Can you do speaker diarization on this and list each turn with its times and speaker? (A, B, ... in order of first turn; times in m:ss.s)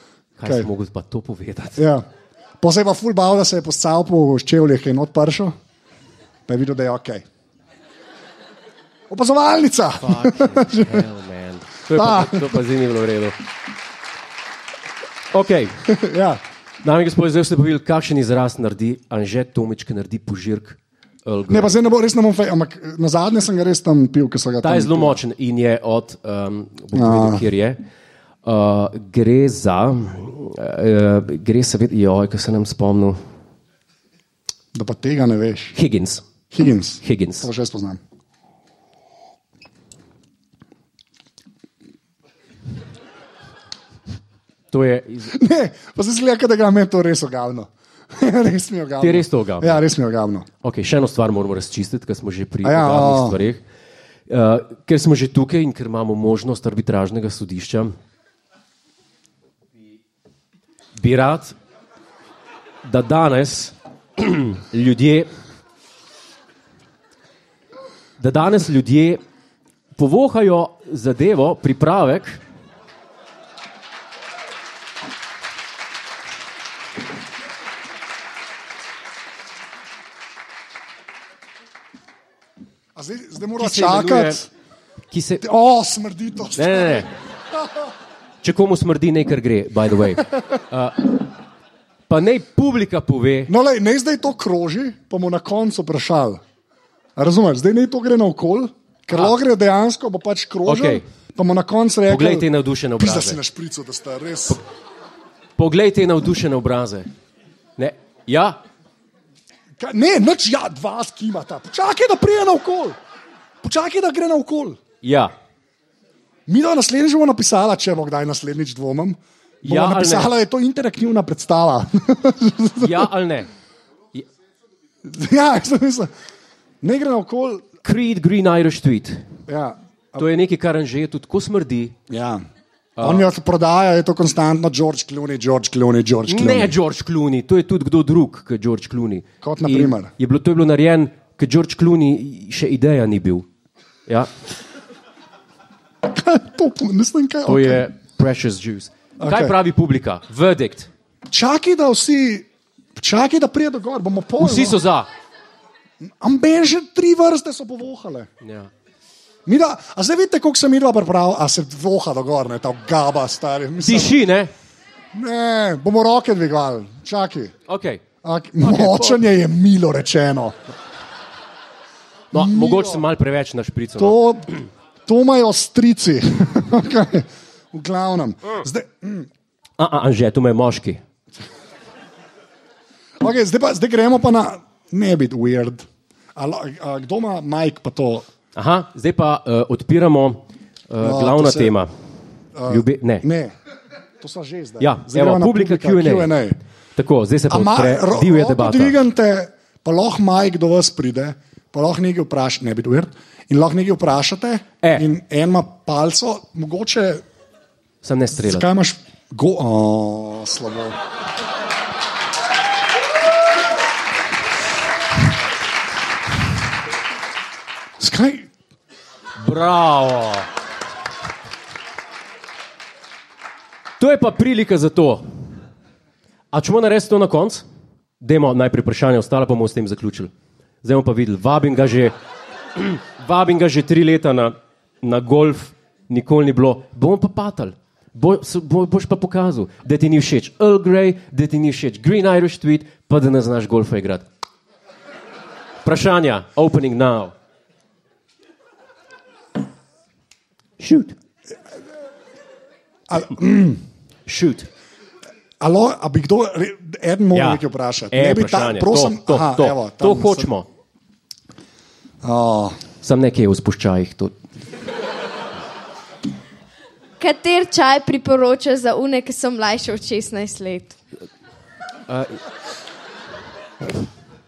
0:00.4-0:01.8 A
0:01.8-0:02.0 B
0:02.6-0:05.6 B
0:06.5-0:07.2 B
0:09.1-0:11.0 B
0:10.0-0:13.4 A
0:11.9-0:12.6 B
0:15.3-0:15.8 A
0:15.9-0:16.4 B
0:16.8-0:21.8 A
0:21.5-0:25.2 B
0:24.6-0:27.8 A
0:26.9-0:27.4 B
0:28.4-0:33.2 A
0:34.7-0:35.8 B
0:35.8-0:36.2 A
0:36.5-0:38.0 B
0:37.0-0:37.5 A
0:44.7-0:45.3 A
0:45.3-0:50.5 B
0:49.0-0:49.8 A
0:50.6-0:53.6 A
0:52.6-0:53.4 B
0:54.3-0:58.0 A
1:01.0-1:01.6 A
1:02.8-1:05.3 A
1:08.2-1:09.2 A
1:10.0-1:12.4 A
1:23.0-1:24.4 B
1:23.6-1:24.4 A
1:25.1-1:25.4 A
1:25.4-1:27.8 B
1:26.6-1:27.1 A
1:28.4-1:31.3 A
1:32.1-1:33.5 A
1:33.5-1:36.4 B
1:37.2-1:44.6 B
1:40.7-1:41.0 A
1:42.1-1:43.4 A
1:45.6-1:47.1 A
1:47.8-1:48.6 A
1:49.8-1:53.0 B
1:53.6-1:54.8 B
1:55.0-1:55.3 A
1:56.5-2:03.1 B
1:59.6-2:00.3 A
2:02.8-2:03.5 A
2:05.0-2:06.1 B
2:06.8-2:07.6 B
2:07.8-2:09.3 A
2:09.5-2:10.2 B
2:10.2-2:11.9 A
2:12.1-2:12.4 B
2:13.0-2:13.3 A
2:13.0-2:16.7 B
2:16.3-2:23.4 A
2:19.4-2:20.1 B
2:26.0-2:27.9 B
2:27.4-2:30.9 A
2:29.2-2:29.6 B
2:31.3-2:34.8 B
2:34.4-2:35.1 A
2:36.0-2:38.3 B
2:38.4-2:38.7 A
2:39.5-2:44.2 B
2:43.8-2:44.5 A
2:45.1-2:47.5 B
2:47.7-2:48.0 A
2:48.2-2:50.6 B
2:48.6-2:49.2 A
2:52.3-2:54.6 A
2:52.3-2:53.0 B
2:54.0-2:54.5 B
2:55.1-2:59.3 B
2:59.8-3:01.0 A
3:03.2-3:08.3 B
3:08.6-3:11.9 A
3:11.0-3:11.7 B
3:12.6-3:13.5 B
3:12.7-3:13.3 A
3:14.2-3:16.6 B
3:14.8-3:16.4 A
3:17.0-3:19.0 A
3:17.5-3:27.2 B
3:24.8-3:25.1 A
3:28.0-3:28.7 A
3:28.4-3:31.0 B
3:38.0-3:38.5 B
3:39.4-3:40.5 A
3:44.0-3:45.2 A
3:46.5-3:47.6 A
3:48.2-3:50.3 A
3:50.8-3:52.2 A
3:52.8-4:04.3 A
4:05.8-4:07.3 A
4:10.8-4:11.2 A
4:13.1-4:13.8 B
4:14.3-4:14.7 A
4:15.6-4:20.5 B
4:17.3-4:20.7 A
4:22.2-4:22.8 B
4:23.0-4:24.3 A
4:27.2-4:31.0 C
4:32.1-4:32.4 A